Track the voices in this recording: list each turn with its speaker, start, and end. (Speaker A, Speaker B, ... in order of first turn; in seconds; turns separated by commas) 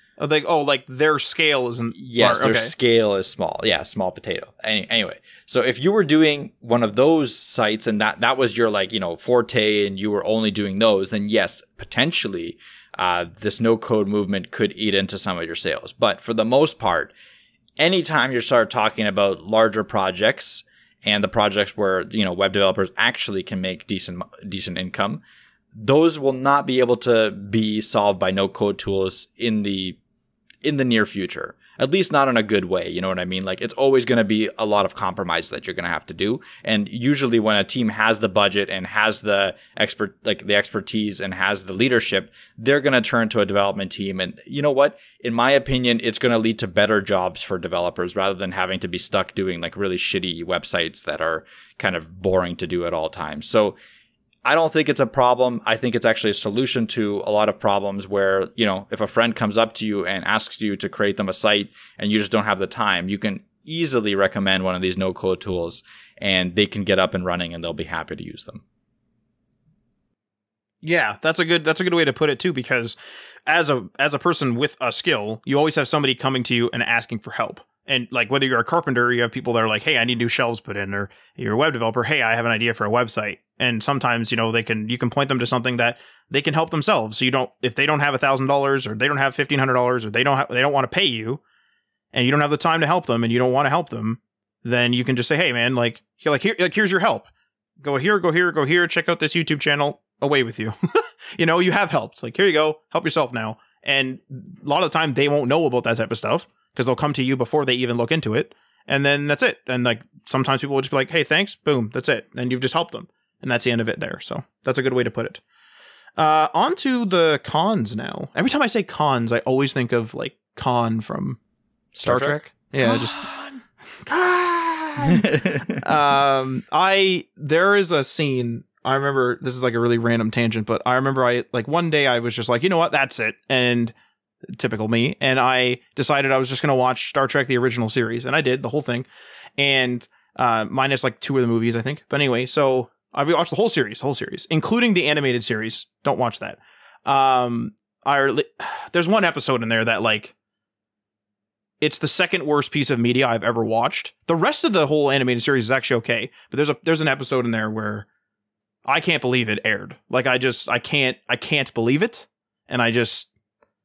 Speaker A: 0.2-2.7, Speaker B: 1.9-17.1, Speaker B: 17.8-25.2, Speaker B: 25.7-30.0, Speaker B: 30.6-53.8, Speaker B: 54.5-68.6, Speaker A: 70.8-73.0, Speaker A: 73.5-91.4, Speaker A: 92.1-97.3, Speaker A: 97.8-115.4, Speaker A: 116.2-121.4, Speaker B: 121.9-123.5, Speaker A: 122.0-123.3, Speaker A: 124.0-133.9, Speaker B: 125.0-125.8, Speaker A: 134.5-150.3, Speaker A: 151.8-158.1, Speaker A: 158.9-163.3